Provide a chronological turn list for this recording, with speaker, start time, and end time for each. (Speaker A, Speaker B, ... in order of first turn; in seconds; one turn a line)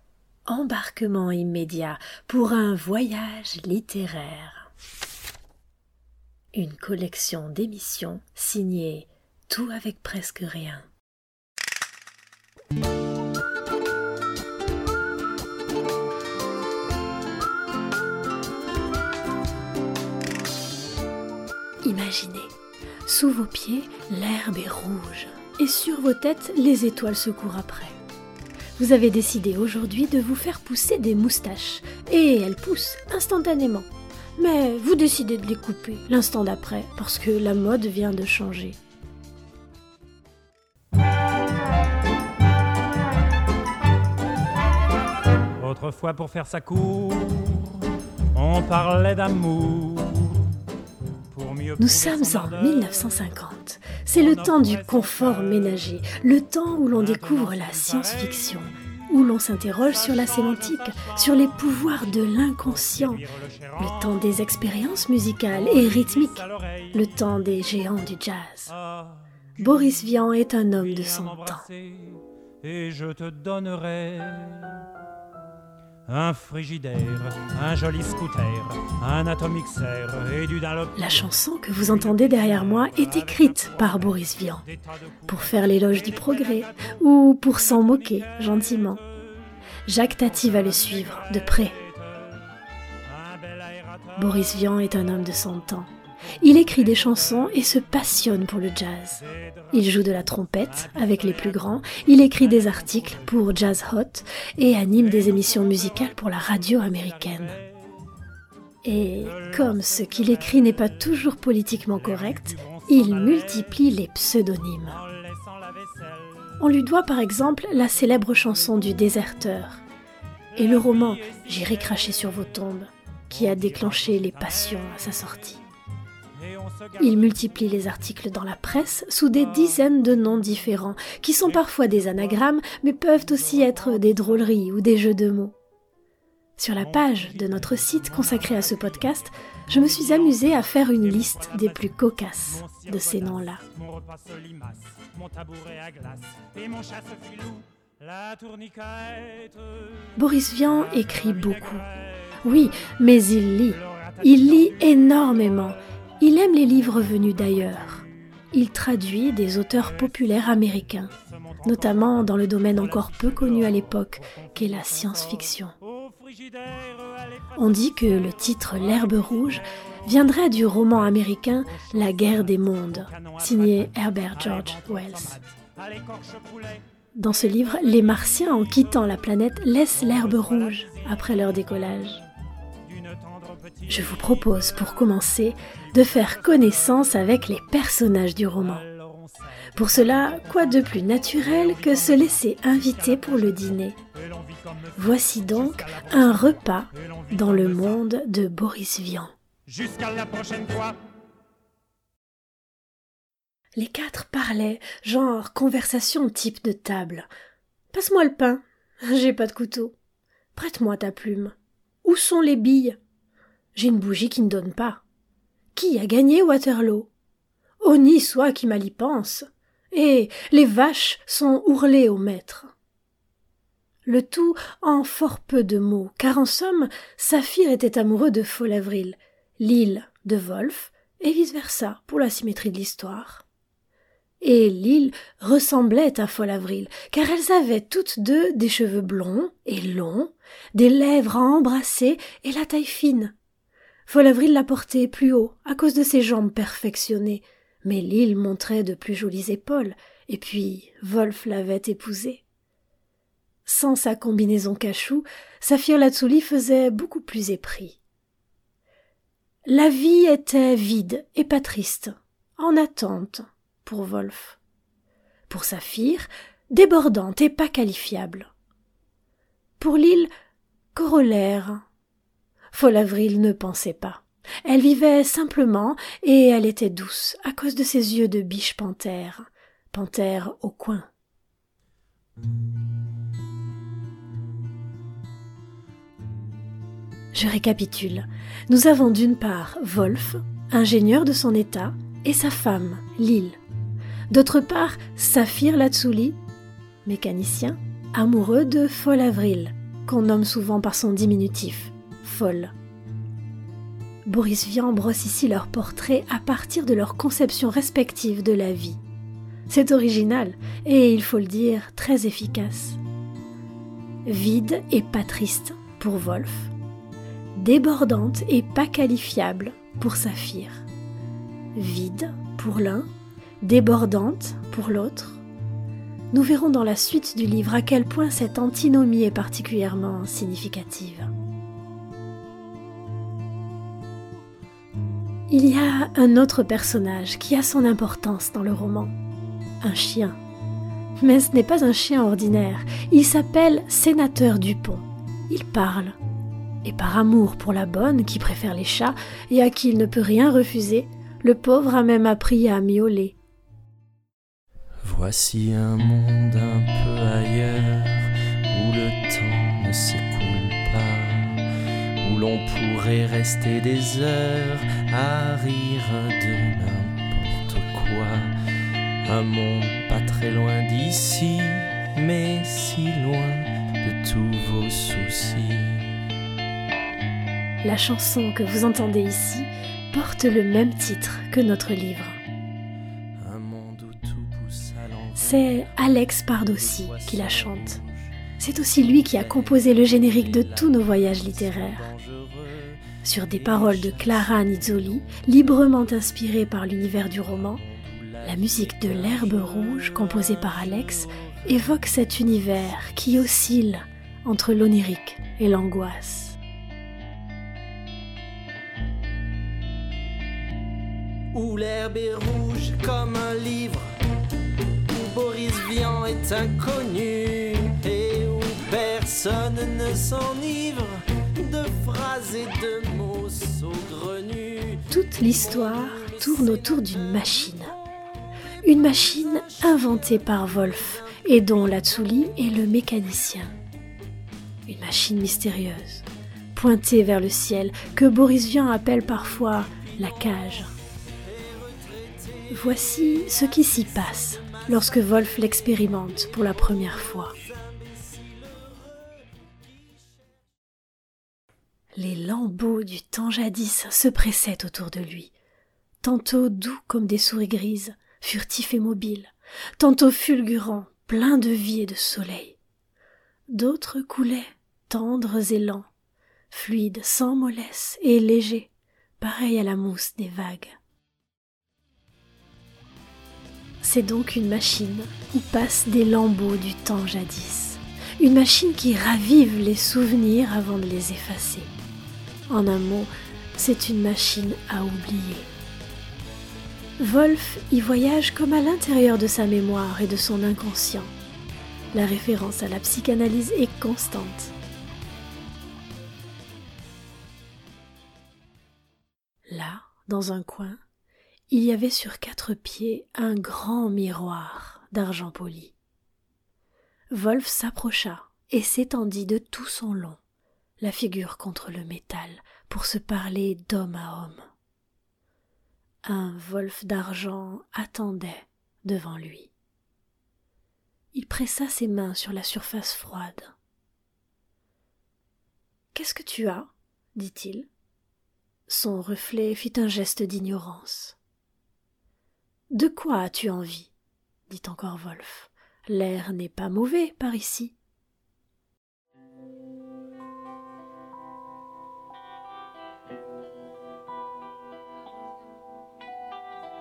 Speaker A: 0.5-4.7
Speaker A: 6.5-10.9
Speaker A: 21.8-22.5
Speaker A: 23.1-28.0
Speaker A: 28.8-38.8
Speaker B: 45.6-47.9
Speaker B: 48.4-50.5
Speaker A: 51.8-68.7
Speaker A: 69.6-71.7
Speaker B: 72.8-74.8
Speaker B: 76.2-80.8
Speaker A: 80.9-84.7
Speaker A: 85.3-89.0
Speaker A: 89.9-91.8
Speaker A: 94.2-107.6
Speaker A: 108.8-115.0
Speaker A: 116.6-119.8
Speaker A: 120.6-125.6
Speaker A: 127.0-135.6
Speaker A: 136.6-143.6
Speaker B: 144.3-144.7
Speaker B: 145.4-147.7
Speaker B: 148.2-149.2
Speaker A: 150.2-151.9
Speaker A: 152.4-165.7
Speaker A: 167.6-175.4
Speaker A: 177.2-182.2
Speaker A: 183.9-188.9
Speaker A: 189.8-194.0
Speaker A: 195.0-199.3
Speaker B: 199.9-200.9
Speaker A: 203.8-207.3
Speaker A: 207.9-209.9
Speaker A: 210.5-213.0
Speaker A: 213.8-215.0
Speaker A: 215.7-217.1
Speaker A: 217.8-222.7
Speaker A: 224.1-233.4
Speaker A: 234.4-243.3
Speaker A: 244.1-252.4
Speaker A: 253.7-258.0
Speaker A: 259.7-264.6
Speaker A: 265.5-268.5
Speaker A: 269.8-270.3
Speaker A: 270.9-271.9
Speaker A: 272.7-281.1
Speaker A: 287.3-293.6
Speaker A: 294.3-296.4
Speaker A: 297.1-302.7
Speaker A: 304.3-309.0
Speaker A: 309.7-313.0
Speaker A: 314.3-316.7
Speaker A: 317.6-320.9
Speaker A: 321.8-323.1
Speaker A: 323.6-325.4
Speaker A: 326.3-331.3
Speaker A: 335.5-339.1
Speaker A: 339.8-340.4
Speaker A: 341.2-346.2
Speaker A: 346.8-353.4
Speaker C: 355.0-361.6
Speaker C: 362.2-368.5
Speaker C: 369.2-376.2
Speaker A: 377.8-382.4
Speaker C: 383.4-385.6
Speaker A: 385.4-388.0
Speaker C: 387.2-388.1
Speaker A: 388.6-392.1
Speaker C: 391.9-393.2
Speaker A: 393.2-397.8
Speaker C: 397.8-399.1
Speaker A: 398.4-406.6
Speaker C: 411.5-414.1
Speaker C: 414.9-425.1
Speaker A: 425.1-428.0
Speaker A: 428.8-433.8
Speaker A: 434.9-440.9
Speaker A: 442.7-447.6
Speaker A: 452.1-455.5
Speaker A: 456.2-462.8
Speaker A: 463.7-466.1
Speaker A: 466.7-471.0
Speaker A: 474.0-481.9
Speaker A: 482.7-485.7
Speaker A: 487.2-491.3
Speaker A: 492.1-494.7
Speaker A: 499.7-501.0
Speaker A: 501.7-506.0
Speaker A: 507.3-510.4
Speaker A: 511.0-514.7
Speaker A: 516.2-519.7
Speaker A: 521.3-523.8
Speaker A: 526.1-527.9
Speaker A: 528.9-531.4
Speaker A: 532.9-534.1
Speaker A: 534.7-538.0